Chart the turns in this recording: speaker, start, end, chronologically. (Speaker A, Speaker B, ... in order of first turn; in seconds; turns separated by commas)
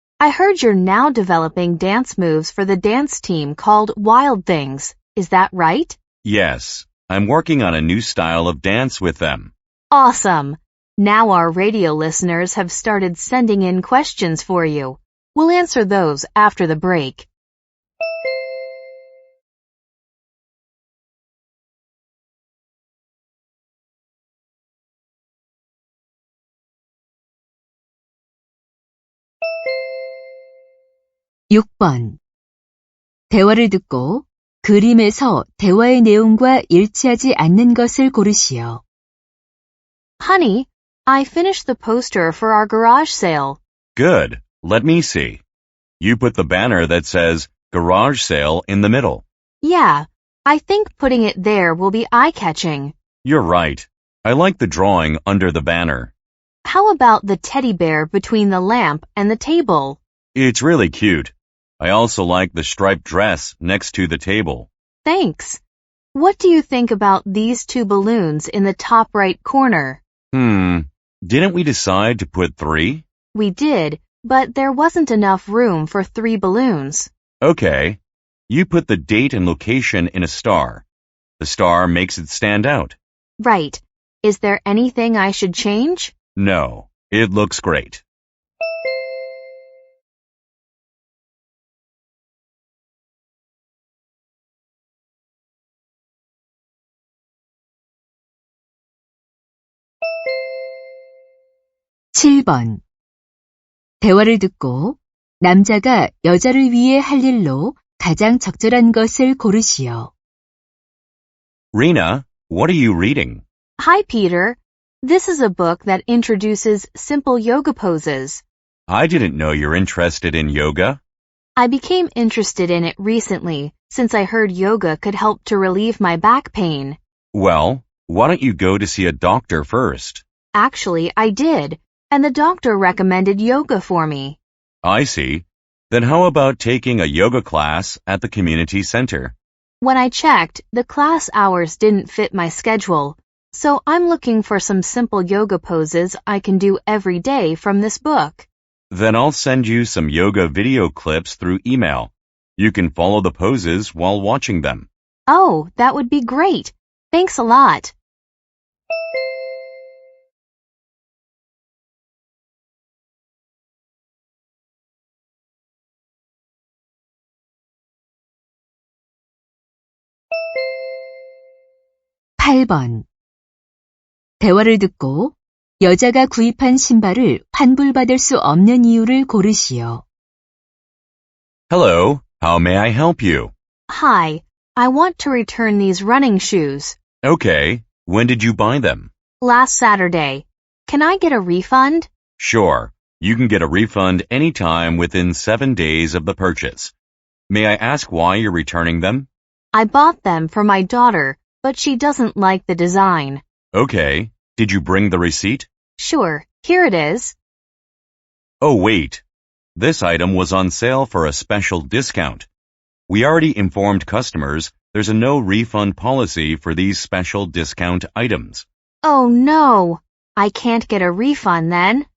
Speaker A: 0.2-6.0, Speaker B: 6.2-9.5, Speaker A: 9.9-17.3, Speaker C: 31.5-32.2, Speaker C: 33.3-38.8, Speaker A: 40.2-43.6, Speaker B: 43.9-45.4, Speaker B: 46.0-49.2, Speaker A: 49.6-52.9, Speaker B: 53.2-56.1, Speaker A: 56.6-60.0, Speaker B: 60.3-64.7, Speaker A: 65.0-65.6, Speaker A: 66.1-70.0, Speaker B: 70.3-73.0, Speaker A: 73.3-77.1, Speaker B: 77.4-80.8, Speaker B: 81.4-83.0, Speaker A: 83.4-86.1, Speaker B: 86.3-88.0, Speaker C: 102.1-102.8, Speaker C: 104.0-110.1, Speaker B: 111.7-113.4, Speaker A: 113.8-118.4, Speaker B: 118.9-121.0, Speaker A: 121.5-127.0, Speaker B: 127.3-130.2, Speaker A: 130.5-134.4, Speaker B: 134.8-139.3, Speaker A: 139.8-148.5, Speaker B: 148.9-154.9, Speaker A: 155.3-157.9, Speaker C: 172.4-173.1, Speaker C: 174.4-180.0, Speaker B: 181.7-183.5, Speaker A: 183.9-187.0, Speaker B: 187.2-189.1, Speaker A: 189.4-192.1, Speaker B: 192.4-196.9, Speaker B: 197.5-199.3, Speaker A: 199.7-203.4, Speaker B: 203.7-205.7, Speaker A: 206.0-207.3, Speaker B: 208.6-209.2, Speaker B: 209.7-212.5, Speaker B: 213.1-218.6, Speaker A: 219.0-222.1